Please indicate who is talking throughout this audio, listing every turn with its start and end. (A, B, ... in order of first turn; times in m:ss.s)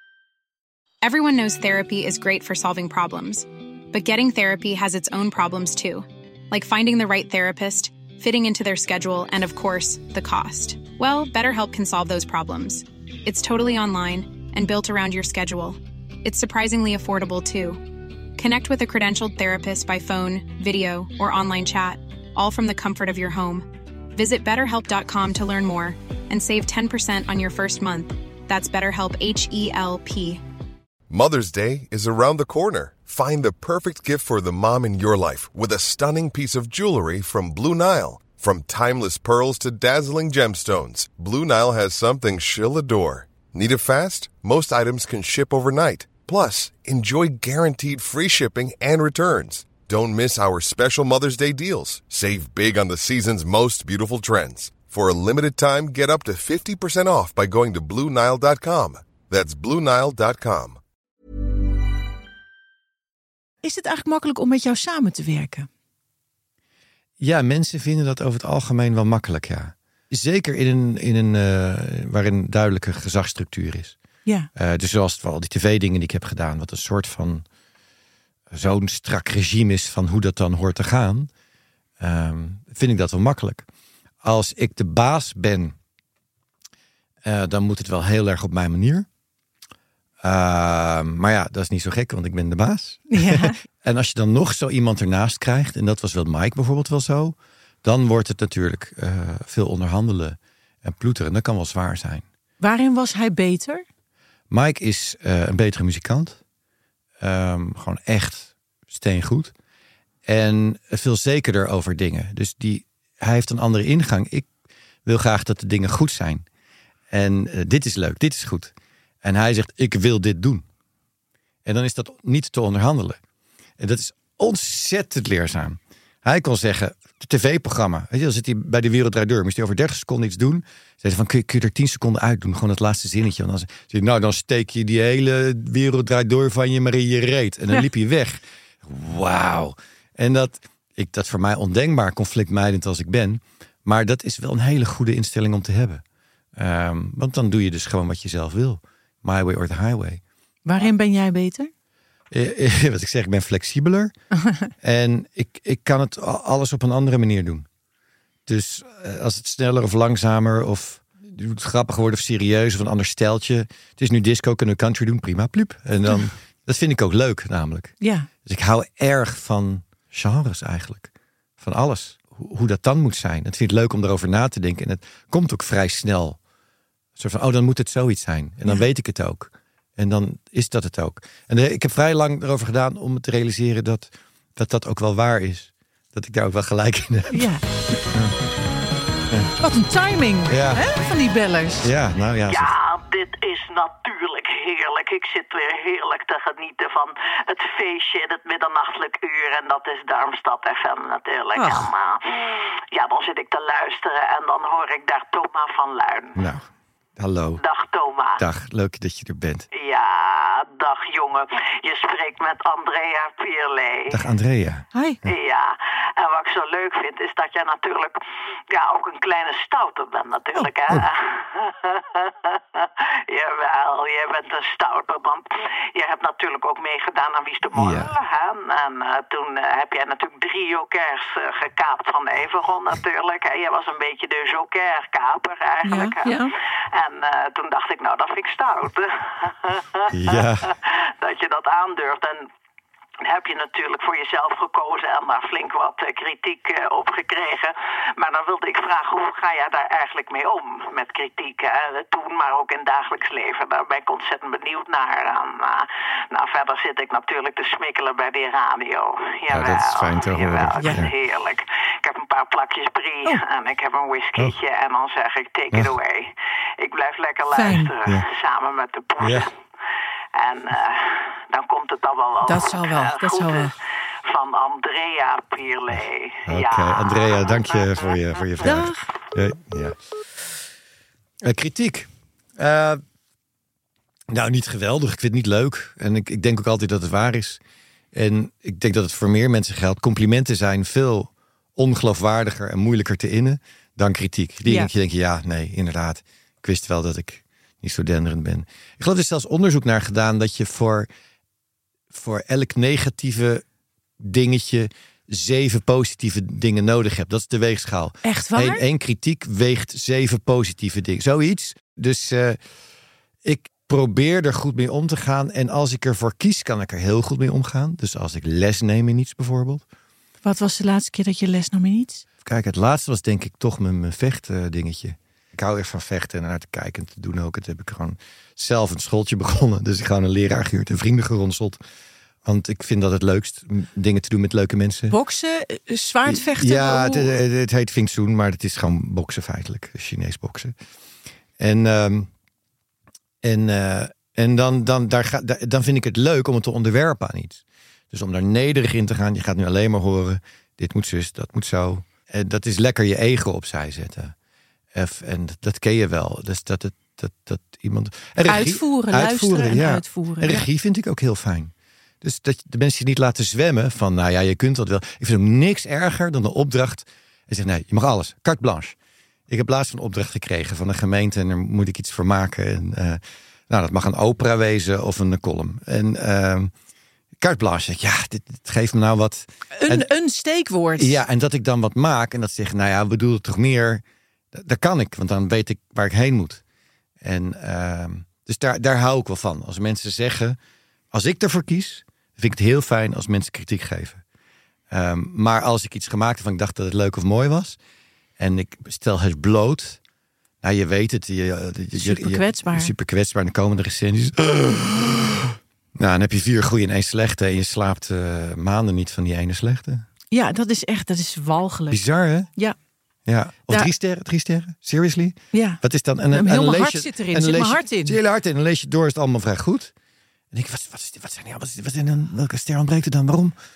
0:01.0-0:30.4 A
0:31.1-1:00.8 B
1:03.6-1:05.7 C
1:07.2-1:14.0 D
1:14.5-1:17.4 D
1:18.5-1:21.3 D
1:22.0-1:23.6 D
1:24.2-1:25.7 D
1:27.2-1:29.1 D
1:30.2-1:42.2 D
1:33.1-1:33.6 C
1:42.6-1:43.8 C
1:44.5-1:46.4 D
1:47.2-1:49.5 D
1:50.2-1:54.5 D
1:55.0-1:56.4 D
1:57.1-2:00.6 D
2:01.6-2:03.2 D
2:03.8-2:26.0 D
2:26.6-2:30.2 D
2:30.6-2:31.7 C
2:32.3-2:34.1 D
2:34.4-2:34.7 C
2:34.8-2:37.7 D
2:38.4-2:56.4 D
2:48.0-2:48.3 C
2:57.2-3:07.5 D
3:07.3-3:07.6 C
3:08.1-3:08.4 D
3:09.6-3:11.9 C
3:10.5-3:10.8 D
3:11.8-3:12.7 D
3:12.5-3:26.4 E
3:21.6-3:21.9 C
3:26.3-3:27.6 D
3:27.6-3:28.4 E
3:28.4-3:29.7 D
3:29.7-3:34.2 E
3:34.1-3:35.3 D
3:34.9-3:35.2 C
3:35.3-4:02.5 E
3:47.7-3:48.1 D
3:55.8-3:56.5 C
4:00.1-4:00.7 D
4:03.2-4:29.5 E
4:19.5-4:21.1 D
4:27.5-4:27.9 C
4:29.2-4:29.5 D
4:30.3-4:38.2 E
4:32.4-4:33.7 C
4:35.9-4:40.0 D
4:38.6-4:39.0 C
4:41.4-4:43.0 D
4:44.3-4:47.6 D
4:48.1-5:01.1 D
4:54.6-4:54.9 C
5:02.1-5:03.6 D
5:04.2-5:12.6 D
5:08.2-5:08.8 C
5:13.4-5:19.8 D
5:20.4-5:22.2 C
5:22.4-5:31.8 D
5:32.4-5:35.2 D
5:35.1-5:37.3 C
5:36.2-5:40.7 D
5:41.6-5:42.3 D
5:43.4-5:54.3 D
5:54.9-6:09.0 D
5:58.4-6:00.6 C
6:09.5-6:16.7 D
6:17.4-6:20.1 D
6:19.8-6:21.2 C
6:21.0-6:26.6 D
6:27.2-6:30.6 D
6:31.1-6:34.2 D
6:34.9-6:37.8 D
6:38.4-6:40.0 D
6:40.6-6:50.0 D
6:41.9-6:42.9 C
6:50.3-6:52.0 C
6:51.9-6:52.5 D
6:53.2-6:59.9 D
6:55.5-6:58.2 C
7:00.5-7:03.5 D